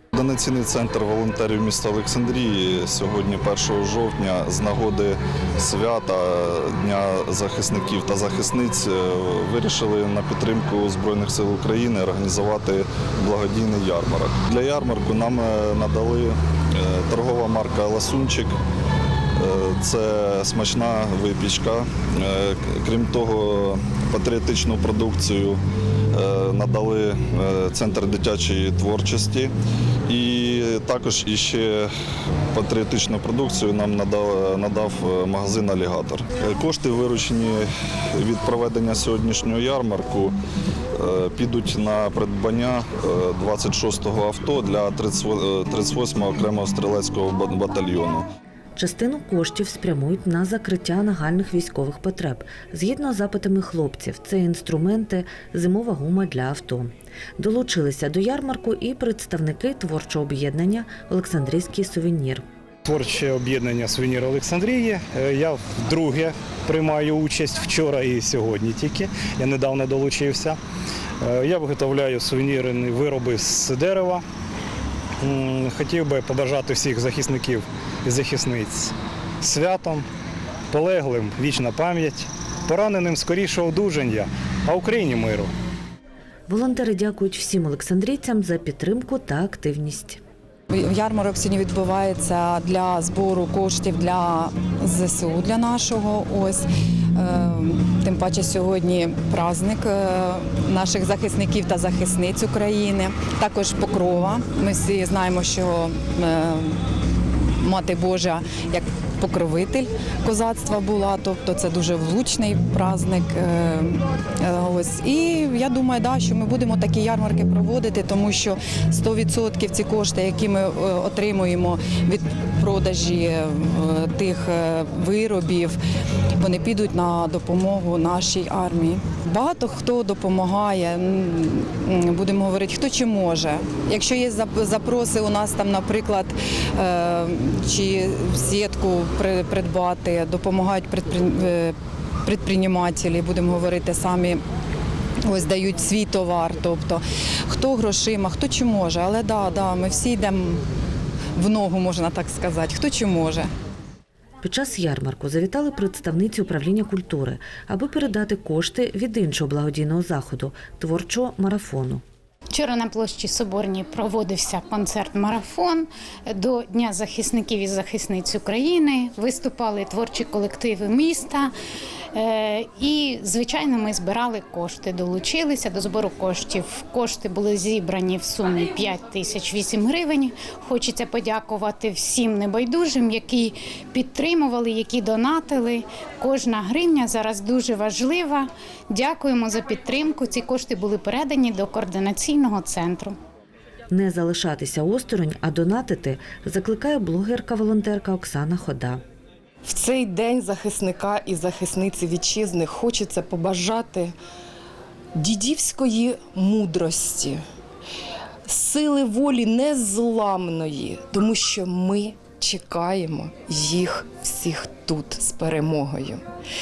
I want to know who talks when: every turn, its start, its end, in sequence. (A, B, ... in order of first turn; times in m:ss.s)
0:00.1-0:18.5 A
0:19.4-0:25.6 A
0:26.1-0:29.5 A
0:30.1-0:31.9 A
0:32.5-0:40.4 A
0:41.0-0:48.2 A
0:48.8-1:02.4 B
1:02.8-1:10.6 C
1:11.2-1:14.2 C
1:15.2-1:20.0 C
1:20.7-1:25.5 C
1:26.5-1:30.2 B
1:30.7-1:36.6 D
1:37.2-1:46.8 D
1:47.6-2:05.8 D
2:06.4-2:24.4 D
2:25.3-2:30.6 D
2:31.4-2:33.5 D
2:34.4-2:42.0 B
2:42.5-2:51.5 E
2:52.1-3:13.2 E
3:13.9-3:19.0 B
3:19.6-3:24.1 F
3:25.1-3:27.4 F
3:28.4-3:36.2 F